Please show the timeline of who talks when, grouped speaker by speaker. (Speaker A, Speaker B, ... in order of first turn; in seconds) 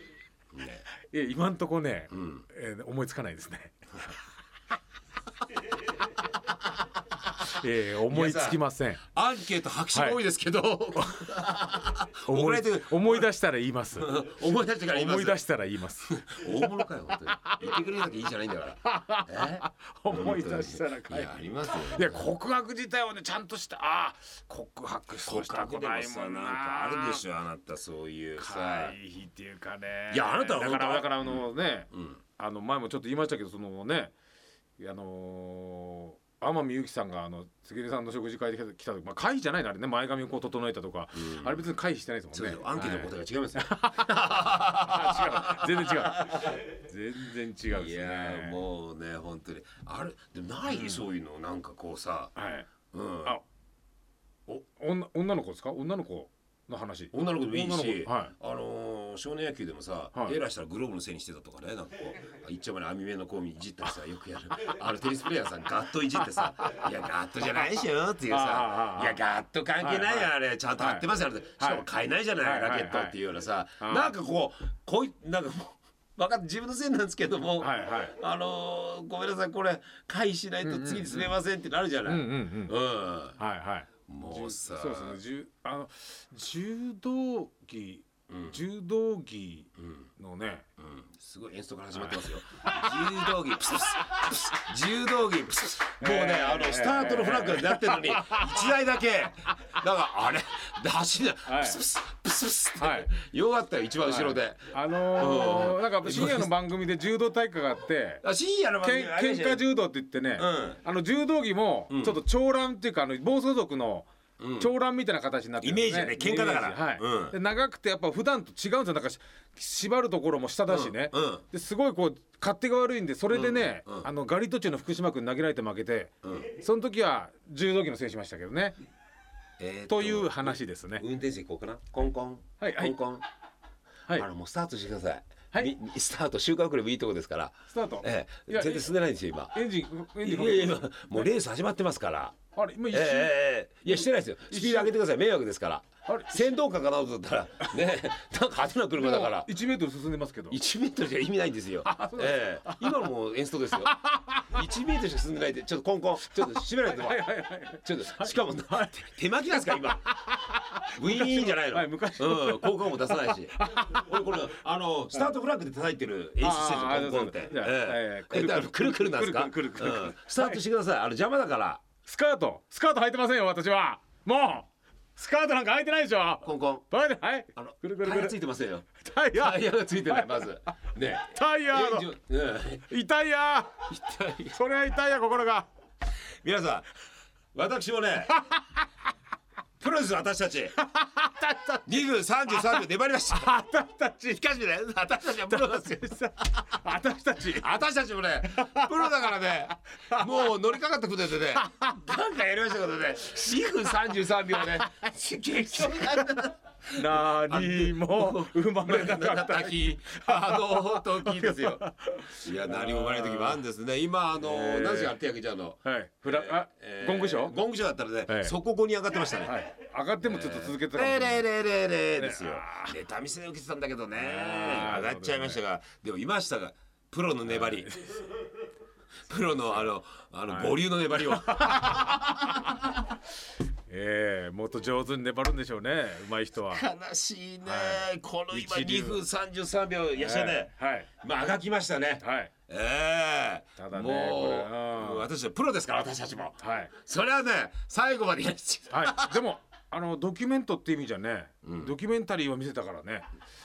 Speaker A: 0.5-0.8, 2.1-2.4, 8.1-8.6, 9.1-13.3, 13.9-15.4, 16.1-22.3, 25.2-28.9, 30.1-32.2, 41.1-41.8, 42.3-46.6, 47.6-52.3, 52.9-53.4, 57.1-83.4, 84.1-85.2, 88.3-88.6, 89.8-90.0, 90.8-106.5, 108.2-109.7, 110.3-110.8, 111.9-112.2, 114.4-114.7, 115.6-117.4, 120.7-121.4, 123.3-124.1, 126.2-126.5, 129.6-133.2, 134.1-139.5, 140.2-142.3, 142.9-149.5, 150.5-153.9, 154.5-160.1, 160.9-171.8, 176.4-176.8, 177.6-182.9, 183.9-184.6, 186.4-186.9, 187.5-188.4, 189.8-190.7, 191.8-193.5, 194.4-196.2, 197.4-211.8, 212.4-219.7, 220.2-228.0, 229.3-232.7, 236.5-249.4, 251.6-251.9
Speaker B: 1.0-4.1, 7.4-9.0, 9.9-10.2, 11.0-11.4, 12.2-14.3, 14.9-16.7, 17.5-17.7, 18.8-27.2, 28.4-34.1, 34.8-48.6, 50.7-51.0, 52.3-52.7, 54.5-58.3, 67.6-69.2, 69.8-71.1, 71.6-71.8, 72.4-73.2, 73.8-74.1, 77.6-78.1, 80.6-81.3, 82.0-82.7, 83.4-90.7, 91.9-93.1, 96.0-98.7, 101.5-101.8, 102.8-103.1, 104.0-108.2, 108.8-128.8, 129.9-131.0, 132.6-133.0, 137.7-138.9, 139.5-141.3, 142.5-143.3, 143.9-144.9, 146.1-146.5, 149.0-150.6, 151.8-153.1, 153.7-154.5, 156.4-159.1, 159.8-164.4, 166.4-170.6, 172.0-178.3, 179.0-180.5, 181.2-182.1, 182.9-183.8, 184.5-185.7, 188.3-188.6, 190.8-191.9, 192.5-192.8, 193.3-194.6, 195.4-197.7, 198.5-199.2, 200.1-200.5, 201.6-201.9, 205.8-213.6, 214.4-215.1, 215.8-217.5, 218.3-218.5, 219.4-221.4, 222.2-222.9, 224.2-225.6, 227.5-228.1, 230.5-232.4, 233.9-236.8, 237.7-239.2, 240.2-241.1, 242.2-242.5, 243.8-245.2, 246.6-246.9, 248.9-253.3